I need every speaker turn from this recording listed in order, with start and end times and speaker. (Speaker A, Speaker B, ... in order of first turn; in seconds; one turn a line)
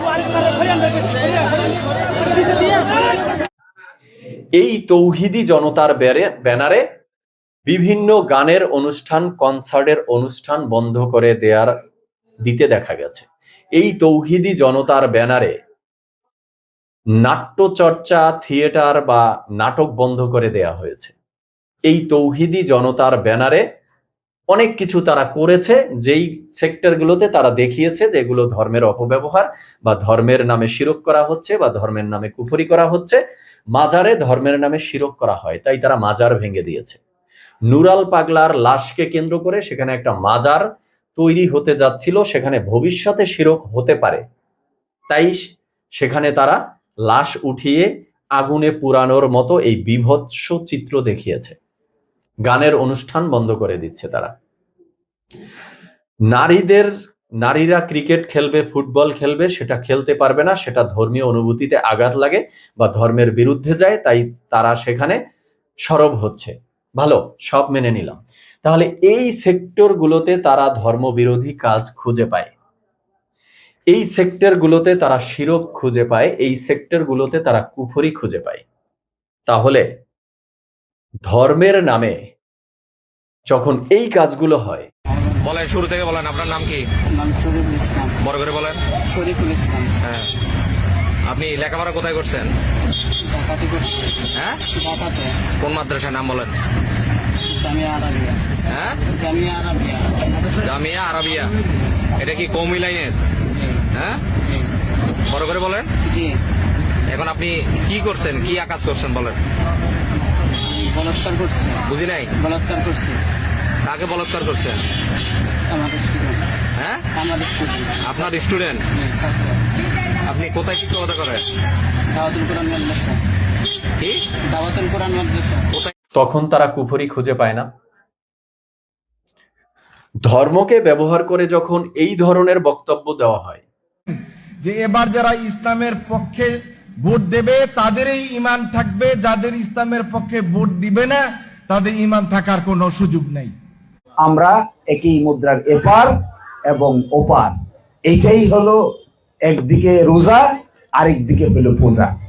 Speaker A: 4.6-6.8
Speaker A: 7.7-11.7
Speaker A: 12.4-13.2
Speaker A: 13.8-15.5
Speaker A: 17.2-21.1
Speaker A: 21.9-23.6
Speaker A: 24.5-33.2
Speaker A: 33.8-37.0
Speaker A: 37.7-40.6
Speaker A: 41.2-44.2
Speaker A: 45.1-45.4
Speaker A: 46.0-51.6
Speaker A: 52.5-54.3
Speaker A: 56.3-56.9
Speaker A: 57.4-65.2
Speaker A: 65.9-72.5
Speaker A: 73.9-78.6
Speaker A: 79.5-79.8
Speaker A: 81.3-82.2
Speaker A: 83.5-84.9
Speaker B: 85.4-86.8
Speaker C: 87.2-88.1
Speaker B: 88.2-88.8
Speaker C: 89.1-89.9
Speaker B: 91.3-92.5
Speaker C: 93.2-94.2
Speaker C: 94.8-95.4
Speaker B: 95.6-96.5
Speaker C: 97.5-98.4
Speaker B: 98.7-99.0
Speaker C: 99.1-100.2
Speaker B: 100.6-101.5
Speaker B: 102.2-103.2
Speaker C: 103.6-103.8
Speaker B: 103.9-104.2
Speaker B: 105.3-105.9
Speaker C: 106.1-106.4
Speaker B: 107.1-109.4
Speaker C: 110.7-111.8
Speaker B: 111.9-112.3
Speaker C: 112.3-113.2
Speaker B: 113.8-114.8
Speaker C: 115.7-116.4
Speaker B: 116.8-117.0
Speaker C: 117.1-118.3
Speaker B: 118.0-118.8
Speaker C: 119.0-119.6
Speaker B: 120.2-121.4
Speaker C: 122.1-123.2
Speaker C: 124.4-125.7
Speaker A: 126.2-127.7
Speaker A: 130.2-133.7
Speaker D: 134.6-143.5
Speaker E: 144.2-146.2
Speaker E: 146.7-148.8
Speaker E: 149.4-152.1